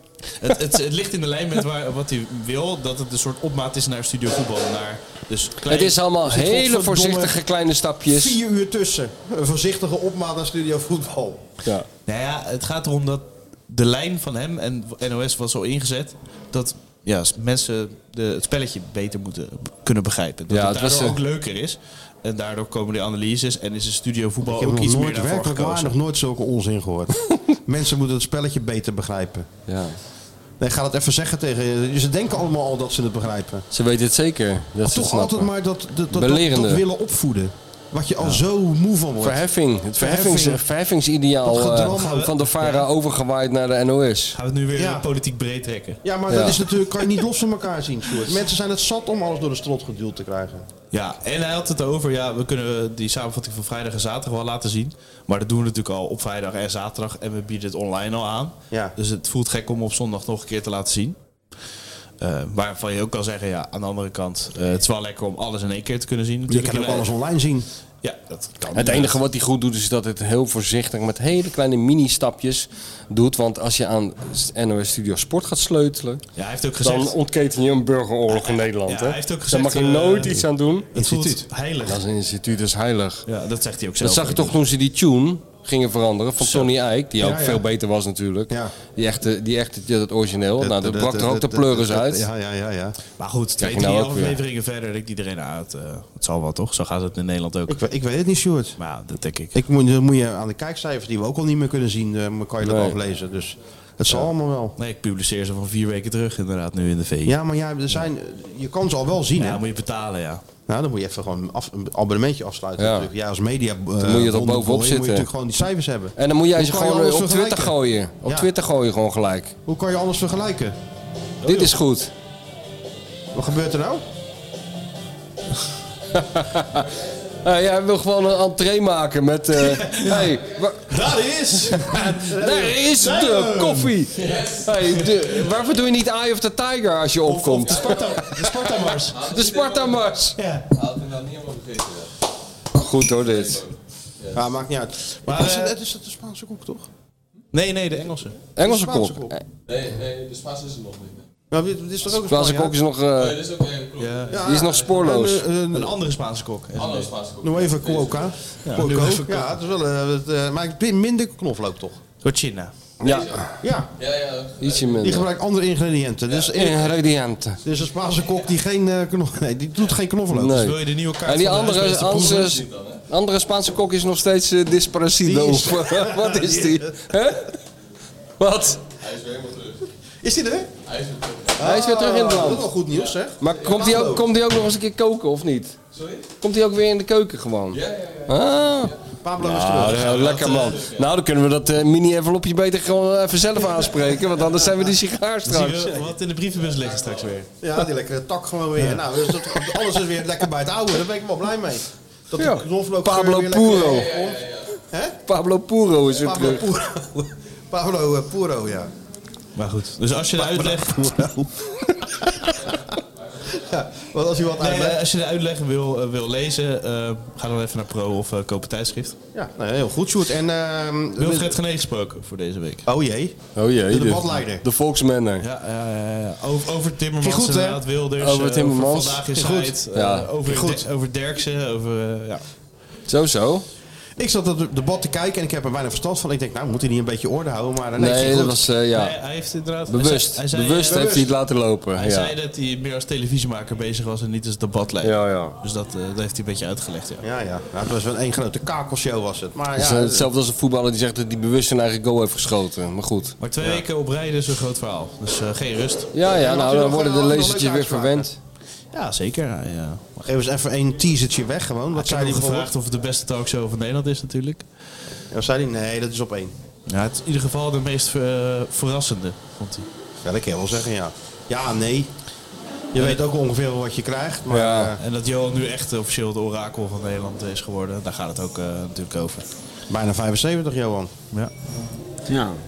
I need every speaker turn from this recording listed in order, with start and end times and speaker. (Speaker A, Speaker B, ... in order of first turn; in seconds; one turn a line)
Speaker A: 0.4-6.0
Speaker B: 5.7-8.4
Speaker C: 6.2-7.4
Speaker C: 8.1-11.4
Speaker A: 12.1-25.9
Speaker B: 20.5-21.2
Speaker C: 24.4-29.5
Speaker B: 29.7-30.0
Speaker C: 30.6-33.6
Speaker B: 33.7-35.5
Speaker C: 34.8-39.4
Speaker B: 36.1-36.8
Speaker B: 39.2-44.4
Speaker C: 40.0-40.6
Speaker C: 41.4-42.3
Speaker A: 41.9-42.8
Speaker A: 44.3-46.0
Speaker C: 44.7-45.0
Speaker C: 46.0-50.6
Speaker B: 46.3-46.7
Speaker A: 50.9-61.1
Speaker A: 62.2-67.1
Speaker C: 66.5-67.7
Speaker A: 68.0-69.1
Speaker B: 68.7-76.2
Speaker A: 76.3-77.1
Speaker B: 76.8-80.9
Speaker A: 78.3-82.0
Speaker C: 80.9-81.4
Speaker B: 81.8-83.2
Speaker A: 83.3-84.5
Speaker B: 84.0-92.2
Speaker A: 86.4-86.7
Speaker C: 87.2-87.6
Speaker C: 90.6-93.0
Speaker A: 93.2-97.8
Speaker B: 93.6-94.4
Speaker C: 97.7-98.8
Speaker A: 98.8-99.5
Speaker C: 99.5-104.8
Speaker B: 102.6-103.0
Speaker A: 104.8-107.4
Speaker C: 107.2-109.6
Speaker A: 109.4-110.4
Speaker C: 110.7-118.5
Speaker B: 112.8-113.1
Speaker B: 114.0-115.3
Speaker B: 116.2-119.5
Speaker C: 119.7-120.8
Speaker A: 121.4-121.7
Speaker B: 121.5-122.1
Speaker C: 123.3-124.0
Speaker B: 126.1-126.9
Speaker B: 127.4-130.9
Speaker A: 129.6-135.1
Speaker B: 131.7-140.4
Speaker C: 131.9-132.7
Speaker D: 134.2-135.6
Speaker A: 137.2-139.2
Speaker D: 137.7-138.4
Speaker D: 139.1-140.1
Speaker A: 140.4-140.7
Speaker D: 140.7-142.1
Speaker B: 142.7-143.7
Speaker D: 143.3-144.4
Speaker C: 144.3-146.9
Speaker A: 145.2-145.8
Speaker A: 147.5-148.4
Speaker B: 148.6-149.4
Speaker C: 148.6-149.3
Speaker D: 149.7-151.3
Speaker C: 151.5-152.8
Speaker B: 152.2-153.5
Speaker D: 153.2-154.9
Speaker A: 154.0-154.4
Speaker C: 154.3-156.0
Speaker B: 154.4-155.4
Speaker A: 155.7-157.1
Speaker D: 156.7-158.3
Speaker C: 157.4-162.0
Speaker A: 158.6-159.5
Speaker A: 162.2-162.7
Speaker B: 163.0-163.5
Speaker D: 163.0-165.1
Speaker C: 163.6-163.9
Speaker B: 164.6-165.3
Speaker C: 165.0-167.0
Speaker B: 166.5-167.6
Speaker C: 167.6-170.7
Speaker B: 170.3-177.6
Speaker A: 170.4-172.6
Speaker D: 172.6-173.0
Speaker C: 175.2-177.1
Speaker B: 178.4-178.8
Speaker D: 179.0-179.8
Speaker C: 180.2-180.7
Speaker D: 180.8-181.6
Speaker C: 181.6-184.2
Speaker B: 181.6-182.7
Speaker D: 182.9-183.9
Speaker B: 183.4-185.8
Speaker D: 185.9-186.3
Speaker B: 186.4-195.9
Speaker D: 187.7-188.9
Speaker C: 189.2-190.8
Speaker A: 189.8-190.1
Speaker D: 190.2-191.0
Speaker A: 195.4-197.5
Speaker D: 196.9-197.2
Speaker C: 197.6-205.2
Speaker A: 198.8-199.0
Speaker B: 202.4-204.1
Speaker D: 203.8-204.7
Speaker B: 205.2-206.6
Speaker C: 206.2-208.9
Speaker A: 209.6-211.2
Speaker C: 210.3-212.9
Speaker C: 213.5-215.0
Speaker A: 214.6-219.2
Speaker C: 219.3-221.6
Speaker A: 221.2-222.9
Speaker C: 222.8-224.6
Speaker B: 223.6-225.4
Speaker A: 225.4-232.4
Speaker C: 227.2-227.8
Speaker B: 228.2-229.2
Speaker C: 229.3-229.8
Speaker B: 229.9-230.3
Speaker C: 230.5-230.8
Speaker B: 233.1-233.6
Speaker C: 234.2-238.7
Speaker B: 238.0-239.1
Speaker A: 238.9-241.2
Speaker B: 239.9-242.3
Speaker C: 240.9-241.3
Speaker A: 241.9-247.2
Speaker B: 245.0-245.6
Speaker C: 247.2-250.3
Speaker B: 249.8-253.4
Speaker A: 253.4-256.1
Speaker B: 256.1-258.4
Speaker C: 256.2-258.3
Speaker A: 258.9-260.2
Speaker C: 260.2-262.7
Speaker A: 261.9-264.6
Speaker C: 265.3-266.6
Speaker A: 266.9-269.9
Speaker C: 270.2-272.1
Speaker C: 272.9-275.0
Speaker A: 272.9-273.2
Speaker B: 274.5-274.9
Speaker A: 275.0-279.5
Speaker C: 279.9-281.1